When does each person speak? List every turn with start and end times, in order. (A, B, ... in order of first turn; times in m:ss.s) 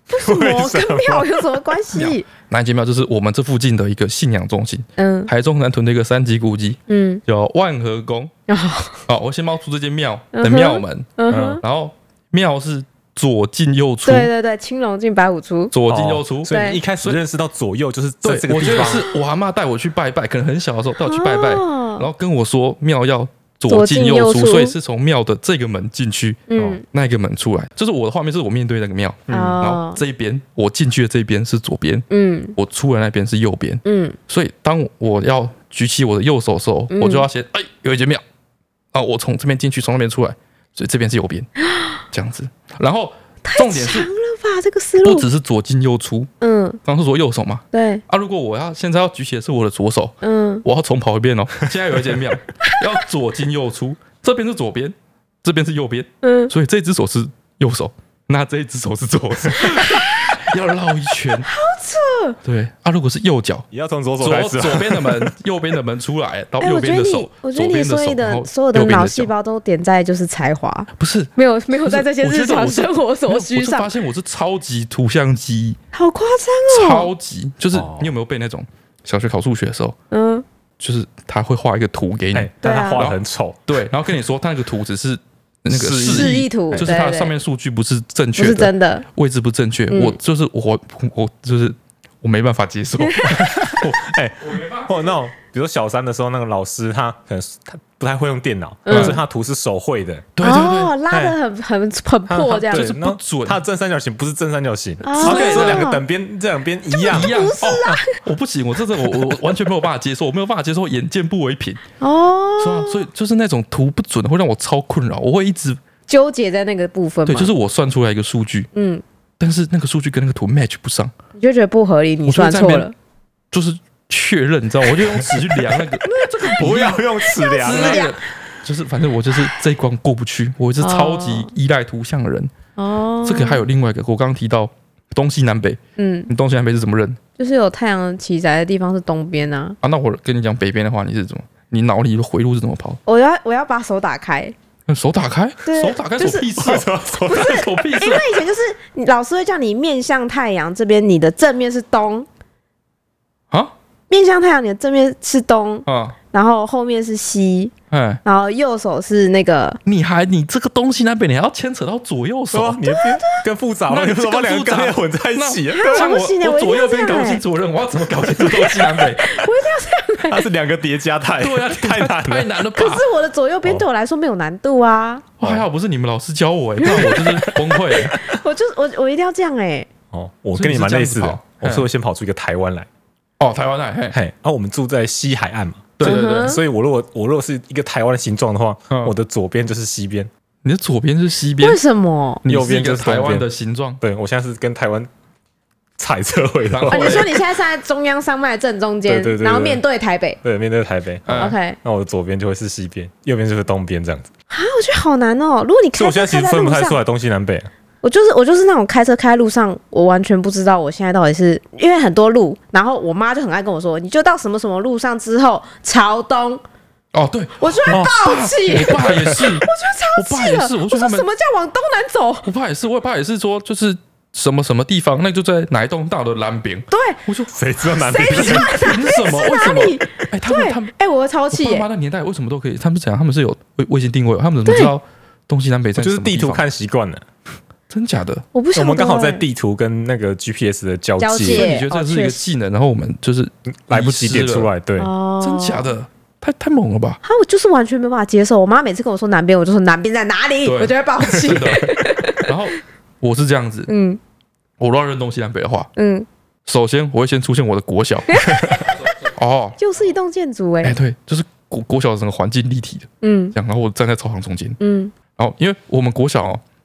0:00.1-0:02.3 A
0:00.2-0:01.5 B
0:01.9-0:08.3 C
0:05.0-0:05.3 A
0:06.9-0:07.2 A
0:08.5-0:09.0 A
0:09.1-0:14.3 C
0:10.3-0:11.6 A
0:11.3-0:11.6 B
0:14.0-0:15.7 A
0:15.7-0:17.2 C
0:15.9-0:19.1 B
0:16.5-0:16.8 A
0:18.2-0:38.2 C
0:18.7-0:19.2 A
0:21.0-0:22.1 A
0:23.7-0:24.8 A
0:26.5-0:26.8 A
0:29.3-0:30.0 A
0:32.1-0:32.6 A
0:33.8-0:34.2 A
0:36.9-0:37.3 A
0:38.9-0:41.5 C
0:41.6-0:42.0 A
0:42.1-0:44.1 C
0:43.4-0:45.3 A
0:45.0-0:46.3 C
0:46.4-0:46.8 A
0:46.8-1:01.5 C
0:47.7-0:48.0 A
0:50.2-0:50.6 A
0:52.6-0:52.9 A
0:56.2-0:56.5 A
0:59.6-1:00.4 A
1:01.4-1:02.4 A
1:02.4-1:03.7 C
1:03.7-1:05.3 B
1:04.2-1:09.3 C
1:06.6-1:13.9 A
1:11.0-1:15.8 C
1:15.9-1:17.1 A
1:16.7-1:20.0 C
1:17.7-1:18.1 B
1:20.1-1:20.4 A
1:20.8-1:35.1 C
1:22.4-1:23.6 B
1:22.6-1:23.1 A
1:25.7-1:26.9 B
1:26.1-1:27.3 A
1:28.4-1:29.0 A
1:29.9-1:30.2 A
1:33.0-1:33.3 A
1:33.2-1:40.3 B
1:38.9-1:39.2 A
1:38.9-1:39.2 C
1:40.4-1:41.0 C
1:40.4-1:42.9 A
1:41.1-1:41.4 B
1:42.3-1:48.0 B
1:42.6-1:43.6 C
1:45.0-1:46.0 A
1:45.2-1:45.9 C
1:46.9-1:48.2 A
1:47.1-1:51.8 C
1:52.0-1:53.0 A
1:52.6-1:55.8 C
1:56.1-1:57.5 A
1:57.3-1:58.7 C
1:58.7-1:59.0 A
1:59.4-2:01.1 C
2:01.4-2:02.9 A
2:02.3-2:02.9 C
2:03.5-2:12.5 C
2:05.0-2:05.8 B
2:06.5-2:08.1 B
2:07.2-2:08.2 A
2:10.8-2:11.5 A
2:12.8-2:13.7 A
2:13.2-2:17.2 C
2:16.0-2:16.3 A
2:17.4-2:19.8 A
2:19.8-2:23.0 C
2:23.1-2:24.6 A
2:24.9-2:28.4 C
2:25.6-2:26.5 A
2:26.3-2:27.8 B
2:27.2-2:32.3 A
2:34.1-2:37.7 A
2:35.9-2:36.2 C
2:37.9-2:38.2 C
2:38.2-2:39.8 A
2:39.8-2:42.8 C
2:42.5-2:46.1 B
2:42.9-2:43.4 A
2:43.9-2:49.2 C
2:45.7-2:47.4 A
2:48.5-2:50.5 A
2:50.3-2:52.5 B
2:51.4-2:53.1 C
2:52.7-2:55.3 A
2:55.4-2:58.2 C
2:56.8-2:59.9 A
2:56.9-2:58.2 B
3:00.1-3:02.9 B
3:00.6-3:01.9 C
3:03.4-3:04.2 C
3:04.1-3:10.3 B
3:06.0-3:06.5 C
3:06.0-3:06.6 A
3:08.9-3:09.2 C
3:10.6-3:11.8 C
3:11.6-3:12.4 A
3:12.4-3:14.0 C
3:12.5-3:13.5 B
3:14.0-3:15.1 B
3:16.0-3:17.4 B
3:16.7-3:17.3 C
3:16.9-3:20.4 A
3:19.1-3:19.8 B
3:20.4-3:24.3 B
3:21.3-3:21.6 C
3:21.3-3:21.8 A
3:24.5-3:27.0 A
3:26.0-3:27.7 B
3:28.0-3:36.6 A
3:37.1-3:41.3 C
3:37.6-3:42.5 A
3:38.8-3:39.5 B
3:42.4-3:50.9 C
3:46.9-3:47.2 A
3:47.5-3:48.8 B
3:48.1-3:51.9 A
3:51.5-3:56.6 C
3:54.7-3:54.9 A
3:56.0-3:57.2 B
3:57.9-3:58.5 C
3:58.5-3:59.4 A
3:58.8-4:01.7 B
4:01.2-4:02.4 A
4:01.4-4:04.7 C
4:03.9-4:05.1 B
4:05.0-4:05.9 A
4:05.4-4:07.2 C
4:07.2-4:12.5 A
4:10.6-4:13.9 C
4:13.9-4:14.2 A
4:14.8-4:15.9 C
4:16.0-4:16.3 A
4:16.7-4:18.5 C
4:18.3-4:18.9 A
4:19.1-4:19.8 C
4:19.8-4:21.0 A
4:20.8-4:24.8 C
4:23.2-4:23.6 A
4:24.8-4:25.1 A
4:25.4-4:26.6 C